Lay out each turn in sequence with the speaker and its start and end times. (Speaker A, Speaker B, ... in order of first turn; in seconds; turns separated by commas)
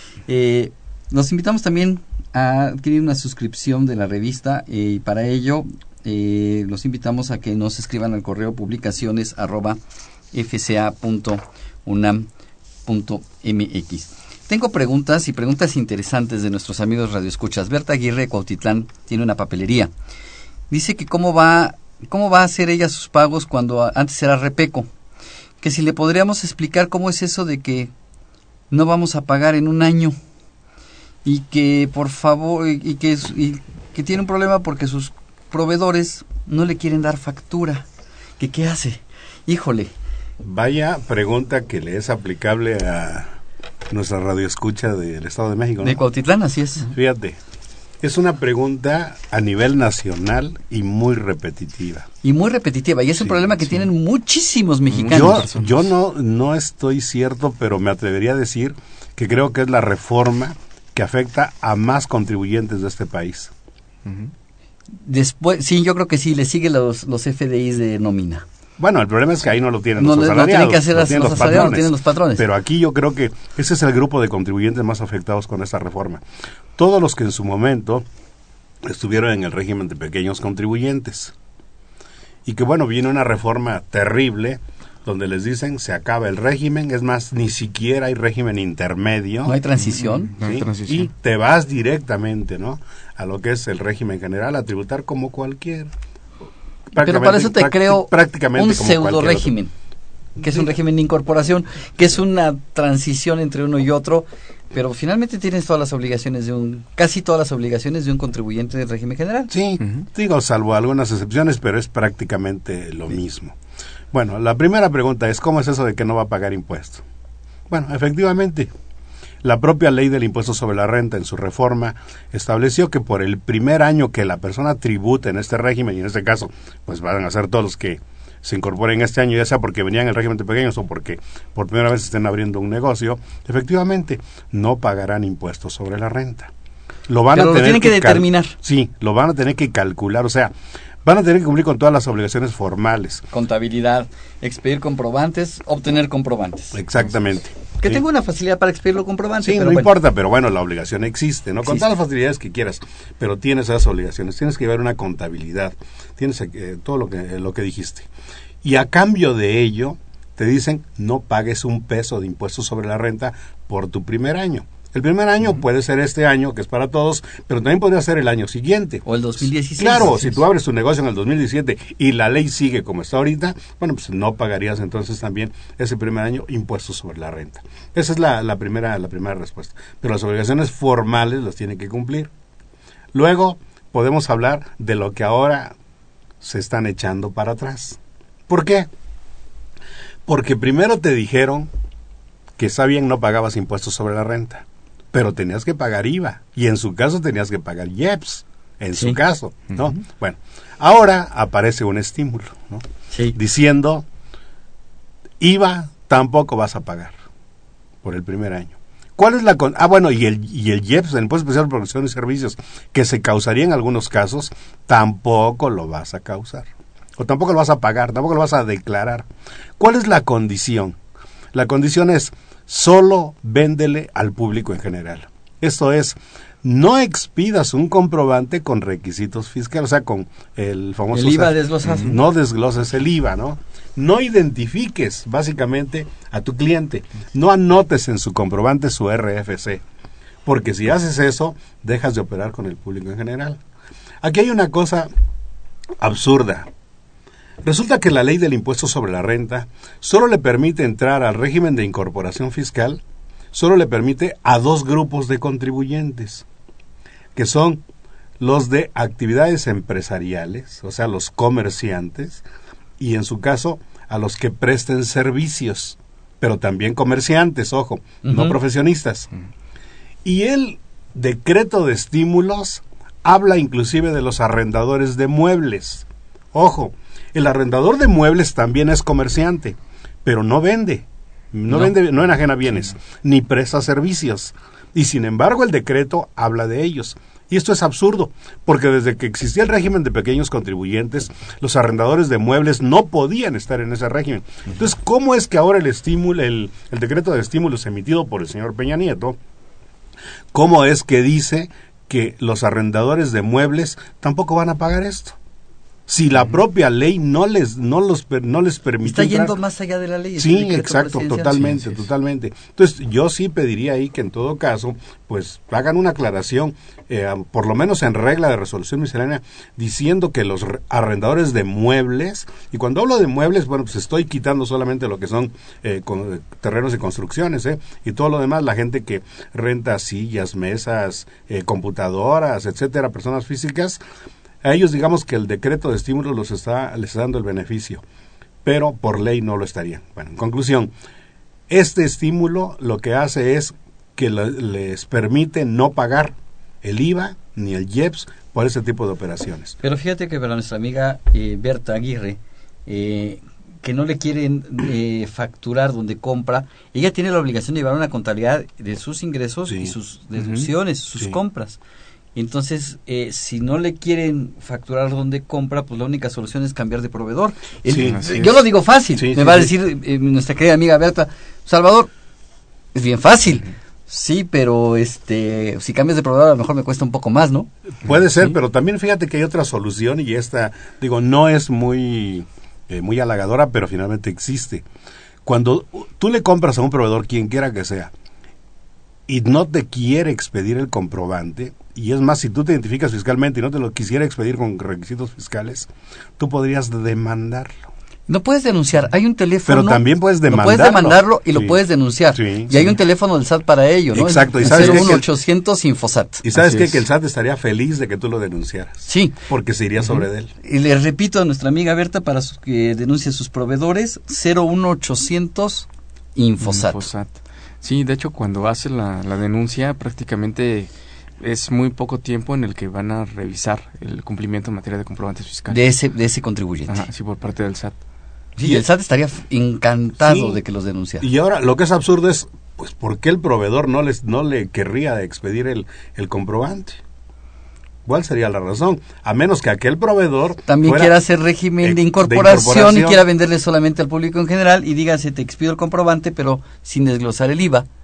Speaker A: 0.3-9.8, Speaker A: 10.3-12.3, Speaker A: 12.8-19.9, Speaker A: 20.7-24.9, Speaker A: 25.6-27.9, Speaker A: 28.7-30.2, Speaker A: 31.2-37.9, Speaker A: 38.4-39.9, Speaker B: 40.4-43.3, Speaker B: 43.9-46.0, Speaker A: 45.8-46.9, Speaker B: 46.9-47.4, Speaker B: 48.0-52.1, Speaker A: 52.2-55.5, Speaker C: 54.9-55.8, Speaker B: 55.1-63.5, Speaker C: 64.0-64.3, Speaker A: 65.0-68.4, Speaker B: 68.8-76.2, Speaker A: 70.0-72.4, Speaker B: 76.8-78.0, Speaker B: 78.8-81.3, Speaker B: 82.5-89.6, Speaker A: 89.4-90.3, Speaker C: 89.8-91.1, Speaker B: 90.4-95.9, Speaker B: 96.9-99.5, Speaker A: 97.0-99.7, Speaker A: 100.4-109.5, Speaker B: 109.5-113.5, Speaker B: 114.1-117.0, Speaker B: 117.7-118.7, Speaker B: 119.4-136.5, Speaker B: 137.1-140.5, Speaker A: 137.3-138.5, Speaker B: 141.0-143.3, Speaker A: 143.3-146.8, Speaker B: 146.7-148.0, Speaker A: 147.8-149.9, Speaker B: 149.4-158.1, Speaker B: 158.6-169.1, Speaker A: 169.1-170.4, Speaker B: 169.8-182.3, Speaker B: 183.1-185.7, Speaker B: 186.4-188.9, Speaker B: 190.2-191.7, Speaker B: 192.6-204.0, Speaker A: 203.1-203.4, Speaker B: 205.4-207.1, Speaker B: 208.0-219.3, Speaker B: 219.8-220.9, Speaker B: 221.5-239.8, Speaker A: 231.1-232.2, Speaker B: 240.4-243.6, Speaker B: 244.2-245.1, Speaker B: 246.0-246.7, Speaker B: 247.6-253.0, Speaker B: 253.5-256.4, Speaker B: 257.3-257.8, Speaker B: 258.4-262.4, Speaker B: 263.0-269.3, Speaker A: 268.2-268.6, Speaker B: 270.2-299.4, Speaker B: 300.5-305.4, Speaker B: 306.1-309.6, Speaker A: 309.0-311.7, Speaker B: 310.4-334.0, Speaker B: 334.6-338.0, Speaker B: 338.6-340.9, Speaker B: 341.7-349.8, Speaker A: 349.8-361.8, Speaker C: 360.4-360.7, Speaker A: 362.3-372.1, Speaker B: 367.9-368.2, Speaker C: 367.9-368.6, Speaker B: 369.2-369.7, Speaker A: 372.9-377.7, Speaker B: 378.0-384.8, Speaker B: 385.4-388.1, Speaker B: 389.3-397.8, Speaker A: 398.3-406.4, Speaker B: 399.6-401.8, Speaker B: 402.3-402.9, Speaker B: 404.1-405.2, Speaker C: 404.6-405.1, Speaker B: 406.4-410.5, Speaker C: 406.5-407.0, Speaker A: 409.1-409.4, Speaker A: 410.6-417.0, Speaker C: 416.6-425.8, Speaker A: 425.7-427.0, Speaker C: 426.9-427.9, Speaker A: 428.6-431.3, Speaker B: 430.2-430.6, Speaker B: 431.2-437.0, Speaker B: 438.0-441.2, Speaker A: 440.7-447.9, Speaker B: 441.8-443.2